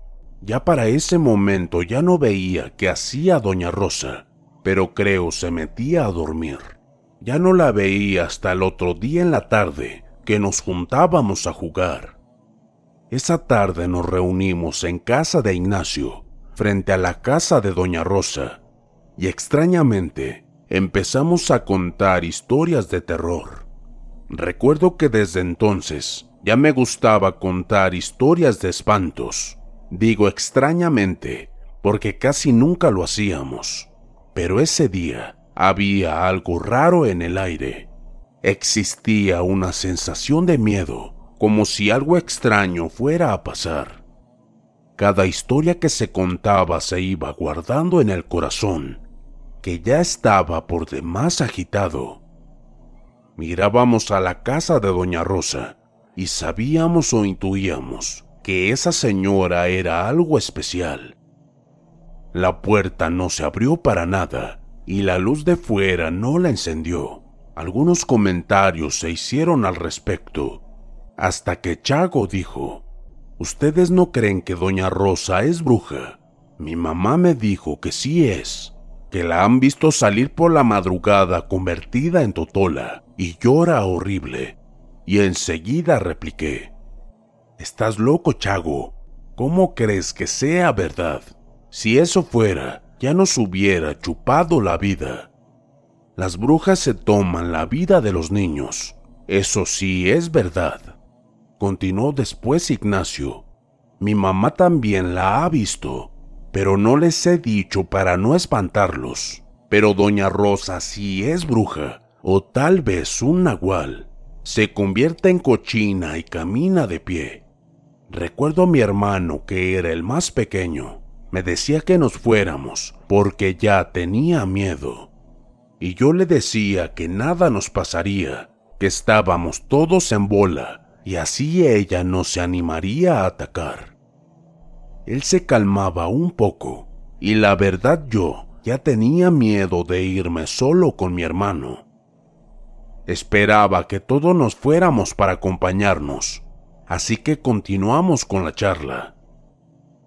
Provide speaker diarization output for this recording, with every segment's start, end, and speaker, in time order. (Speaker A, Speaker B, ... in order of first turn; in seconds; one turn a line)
Speaker A: 0.4-12.2
Speaker A: 13.1-18.6
Speaker A: 19.2-23.7
Speaker A: 24.3-37.9
Speaker A: 38.4-44.0
Speaker A: 45.0-49.0
Speaker A: 49.6-52.2
Speaker A: 53.4-61.2
Speaker A: 62.3-70.6
Speaker A: 71.2-72.9
Speaker A: 73.4-86.7
Speaker A: 87.6-95.3
Speaker A: 96.2-101.0
Speaker A: 101.6-103.5
Speaker A: 104.0-117.5
Speaker A: 118.1-125.1
Speaker A: 125.8-134.0
Speaker A: 135.1-141.9
Speaker A: 143.1-149.1